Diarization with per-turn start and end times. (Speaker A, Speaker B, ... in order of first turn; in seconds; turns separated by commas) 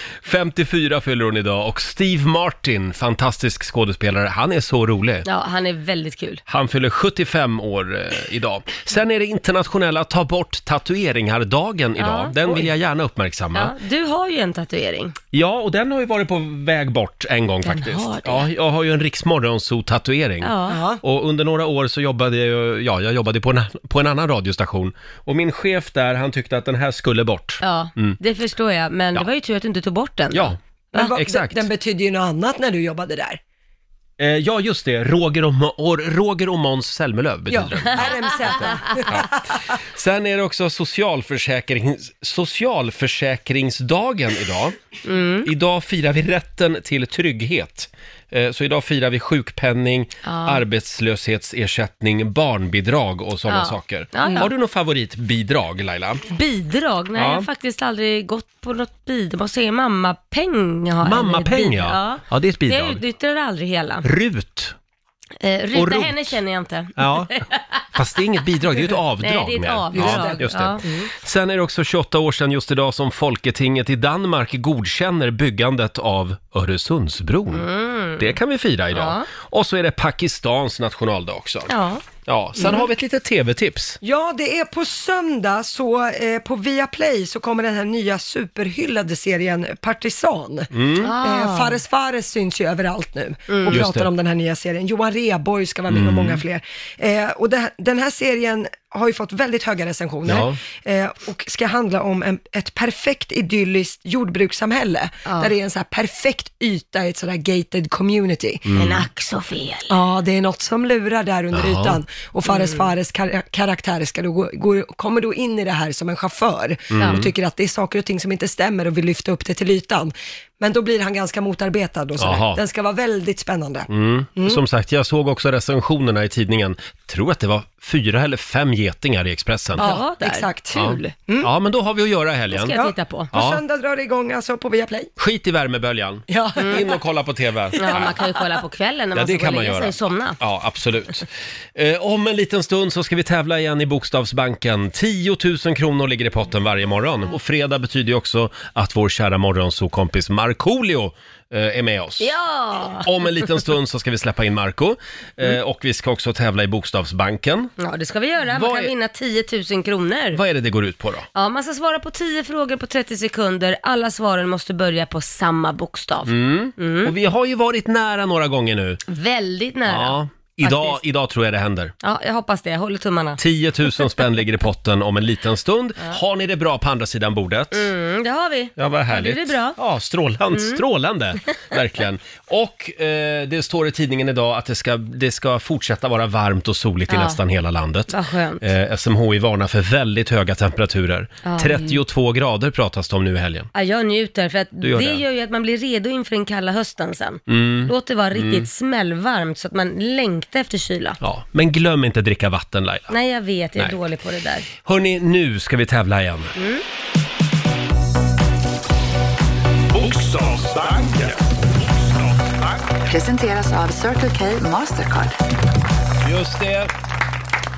Speaker A: 0.2-5.3, Speaker B: 5.2-6.4, Speaker A: 6.5-13.7, Speaker B: 12.0-12.7, Speaker B: 13.6-15.2, Speaker A: 15.3-28.2, Speaker B: 17.6-18.5, Speaker B: 20.4-20.8, Speaker C: 20.7-21.0, Speaker B: 27.6-31.1, Speaker A: 30.3-31.7, Speaker C: 30.9-33.4, Speaker A: 34.2-39.3, Speaker C: 37.5-39.3, Speaker B: 37.9-38.8, Speaker A: 39.9-44.8, Speaker B: 45.0-45.5, Speaker A: 45.4-56.2, Speaker B: 50.2-50.6, Speaker B: 53.5-54.5, Speaker B: 56.3-64.1, Speaker A: 57.1-57.5, Speaker A: 61.0-63.0, Speaker A: 64.0-64.8, Speaker B: 65.4-67.8, Speaker A: 65.7-66.4, Speaker A: 67.0-67.4, Speaker A: 67.9-81.7, Speaker B: 69.2-70.9, Speaker C: 69.9-71.1, Speaker B: 77.5-78.3, Speaker B: 78.9-79.3, Speaker B: 81.7-82.1, Speaker A: 82.2-84.0, Speaker C: 82.6-82.9, Speaker C: 84.0-108.7, Speaker A: 90.7-91.1, Speaker B: 91.0-91.8, Speaker B: 93.5-93.8, Speaker A: 93.7-94.1, Speaker A: 95.9-96.4, Speaker A: 100.3-100.6, Speaker B: 105.2-105.5, Speaker A: 108.7-109.1, Speaker B: 108.7-110.0, Speaker C: 109.9-124.6, Speaker A: 111.5-112.0, Speaker B: 112.5-112.9, Speaker A: 116.9-117.3, Speaker B: 117.0-117.2, Speaker A: 122.2-122.6, Speaker A: 123.9-129.9, Speaker B: 129.8-130.5, Speaker C: 129.8-131.5, Speaker A: 130.7-132.8, Speaker B: 132.5-133.3, Speaker C: 132.7-135.1, Speaker A: 133.3-133.6, Speaker A: 135.2-138.2, Speaker C: 136.3-136.8, Speaker B: 136.6-136.9, Speaker B: 137.7-140.4, Speaker A: 139.2-152.3, Speaker B: 152.2-153.4, Speaker A: 153.0-157.7, Speaker B: 157.8-160.4, Speaker A: 158.5-158.9, Speaker A: 160.3-161.3, Speaker B: 161.3-167.1, Speaker A: 166.3-169.0, Speaker B: 169.1-171.0, Speaker A: 169.9-171.9, Speaker B: 172.0-173.4, Speaker A: 173.4-177.9, Speaker B: 177.7-179.8, Speaker A: 178.8-193.7, Speaker B: 180.5-180.8, Speaker B: 187.1-187.4, Speaker B: 188.1-188.7, Speaker B: 191.4-192.0, Speaker B: 193.7-201.2, Speaker A: 194.8-195.2, Speaker A: 197.5-198.7, Speaker A: 201.2-203.1, Speaker B: 203.1-204.7, Speaker A: 204.8-206.5, Speaker B: 206.6-206.8, Speaker D: 209.9-211.4, Speaker D: 212.1-212.8, Speaker E: 213.1-215.4, Speaker A: 216.2-216.9